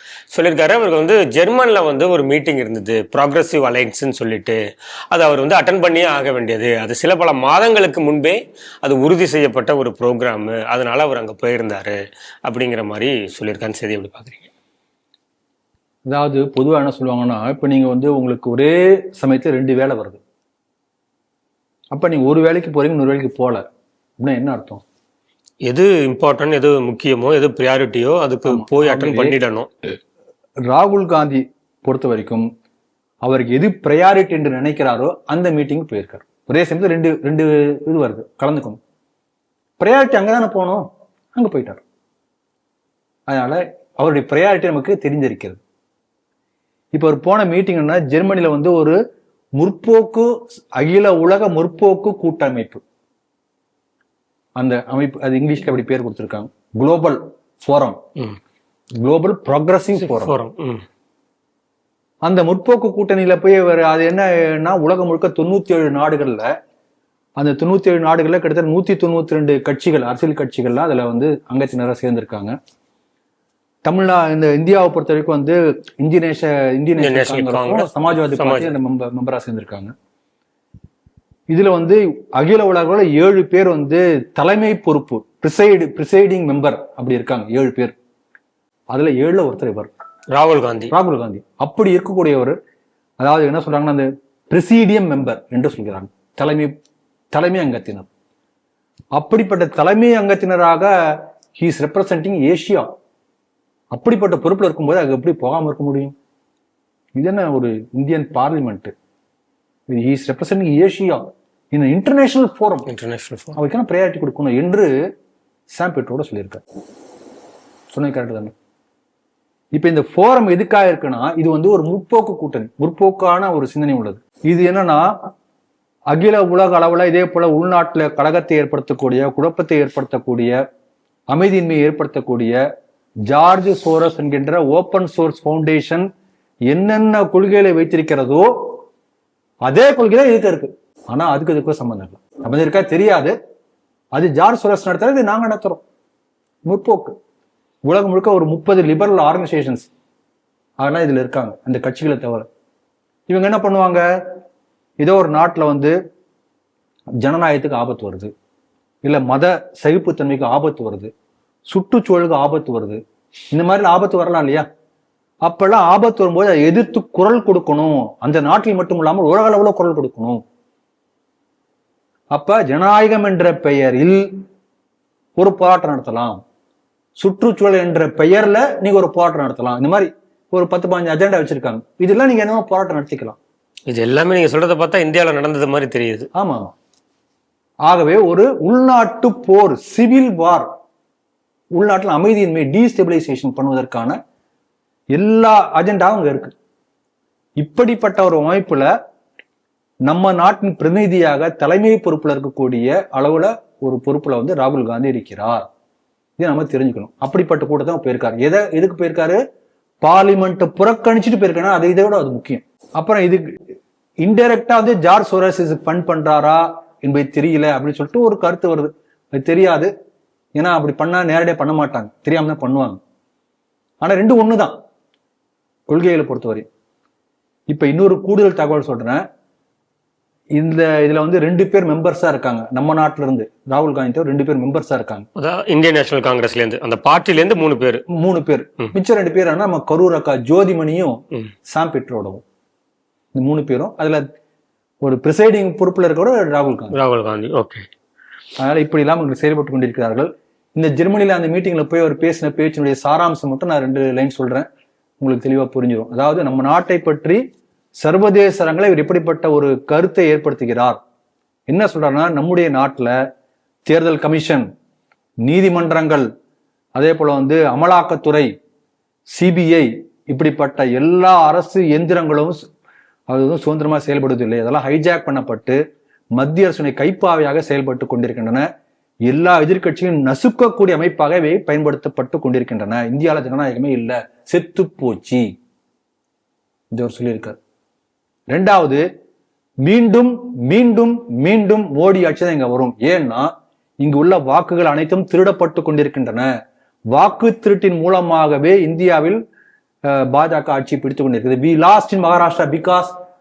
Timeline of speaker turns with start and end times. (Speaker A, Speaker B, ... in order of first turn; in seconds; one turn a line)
Speaker A: 0.3-4.6
Speaker A: 5.1-11.9
Speaker A: 12.5-14.5
Speaker B: 16.1-20.2
Speaker B: 21.9-23.6
Speaker B: 24.2-24.8
Speaker A: 25.7-29.7
Speaker B: 28.4-29.4
Speaker B: 30.7-32.5
Speaker B: 33.2-38.8
Speaker B: 39.8-41.8
Speaker B: 43.3-45.6
Speaker B: 46.9-49.0
Speaker B: 49.6-52.8
Speaker B: 54.6-58.0
Speaker B: 59.0-60.4
Speaker A: 60.0-60.8
Speaker B: 62.2-66.5
Speaker B: 67.4-72.5
Speaker B: 73.8-79.9
Speaker A: 77.0-78.7
Speaker B: 81.5-87.9
Speaker B: 88.9-89.9
Speaker A: 90.3-90.9
Speaker B: 90.9-92.5
Speaker B: 93.2-96.7
Speaker B: 97.3-98.1
Speaker B: 99.2-102.9
Speaker B: 103.9-106.1
Speaker B: 107.2-108.9
Speaker B: 109.9-112.9
Speaker A: 112.9-113.5
Speaker B: 113.5-114.9
Speaker B: 115.7-116.6
Speaker B: 117.9-118.5
Speaker B: 119.8-125.1
Speaker B: 126.1-130.5
Speaker B: 131.3-132.6
Speaker B: 133.3-136.1
Speaker B: 136.7-138.7
Speaker B: 139.6-143.3
Speaker B: 144.1-145.8
Speaker B: 146.7-147.1
Speaker B: 147.9-149.9
Speaker B: 150.8-152.4
Speaker B: 153.3-154.0
Speaker B: 155.0-155.9
Speaker B: 157.2-158.3
Speaker B: 159.0-161.1
Speaker B: 161.7-163.0
Speaker B: 163.5-164.7
Speaker B: 165.4-170.4
Speaker B: 172.3-174.2
Speaker B: 175.4-176.4
Speaker B: 177.2-183.4
Speaker A: 183.9-186.3
Speaker B: 186.3-186.7
Speaker B: 187.8-190.7
Speaker B: 191.8-194.2
Speaker B: 195.1-196.5
Speaker B: 197.6-198.9
Speaker B: 200.1-205.6
Speaker B: 206.4-209.4
Speaker B: 210.0-213.4
Speaker B: 214.2-219.9
Speaker B: 220.6-223.0
Speaker B: 224.0-224.7
Speaker B: 225.9-226.7
Speaker B: 227.7-229.2
Speaker B: 230.6-235.2
Speaker A: 235.4-238.0
Speaker B: 238.1-242.4
Speaker B: 243.3-244.2
Speaker B: 245.0-246.9
Speaker A: 246.9-247.8
Speaker B: 248.6-254.7
Speaker B: 255.2-257.4
Speaker B: 258.0-261.0
Speaker B: 261.7-263.1
Speaker B: 263.9-264.7
Speaker B: 265.4-266.3
Speaker B: 266.9-268.5
Speaker B: 269.3-272.7
Speaker B: 273.3-275.8
Speaker B: 276.4-278.6
Speaker B: 279.3-285.4
Speaker B: 286.9-287.6
Speaker B: 288.5-289.0
Speaker B: 289.8-293.5
Speaker B: 294.0-296.5
Speaker B: 297.1-299.4
Speaker B: 300.1-303.1